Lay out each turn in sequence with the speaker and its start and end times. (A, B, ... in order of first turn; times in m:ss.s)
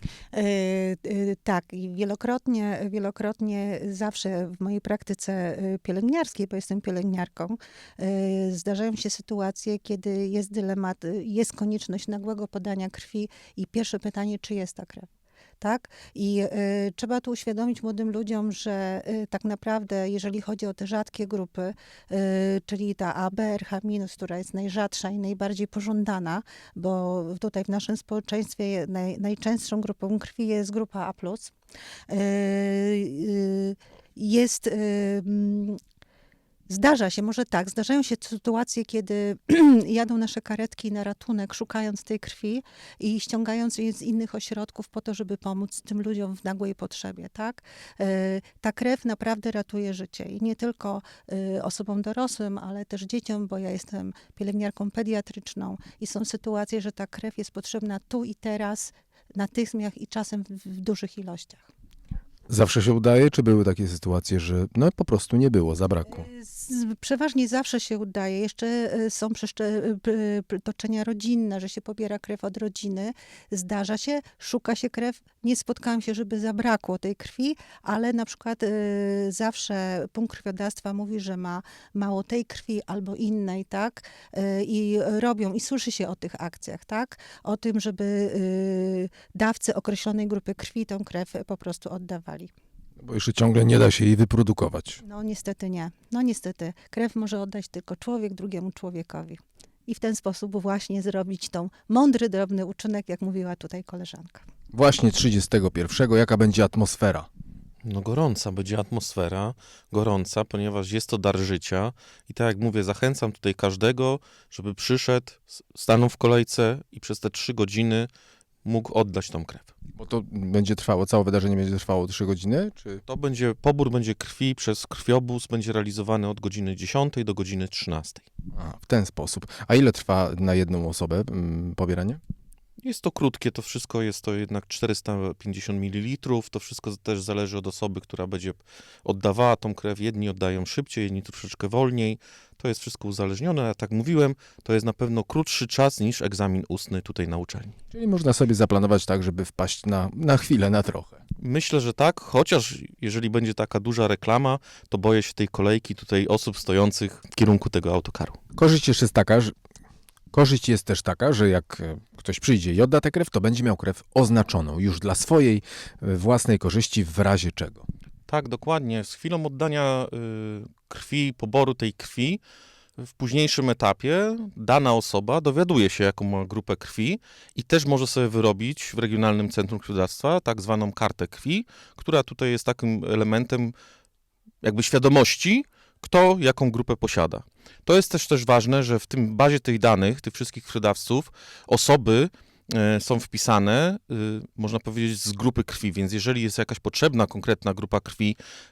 0:00.3-0:15.1 A
0:15.6-0:31.5 A
0:32.1-0:35.8 A
0:36.7-1:01.7 A
1:02.5-1:06.3 B
1:06.1-1:32.5 A
1:33.0-1:35.0 B
1:35.0-1:44.5 A
1:44.7-1:47.3 B
1:47.8-1:58.1 C
1:58.6-1:59.7 C
2:00.0-2:03.0 B
2:03.1-2:08.3 C
2:08.5-2:12.2 B
2:12.8-2:27.7 C
2:27.9-2:31.2 B
2:31.4-2:38.4 C
2:38.6-2:39.5 B
2:40.3-2:47.8 B
2:48.3-2:52.4 C
2:53.1-3:03.7 C
3:04.6-3:18.4 C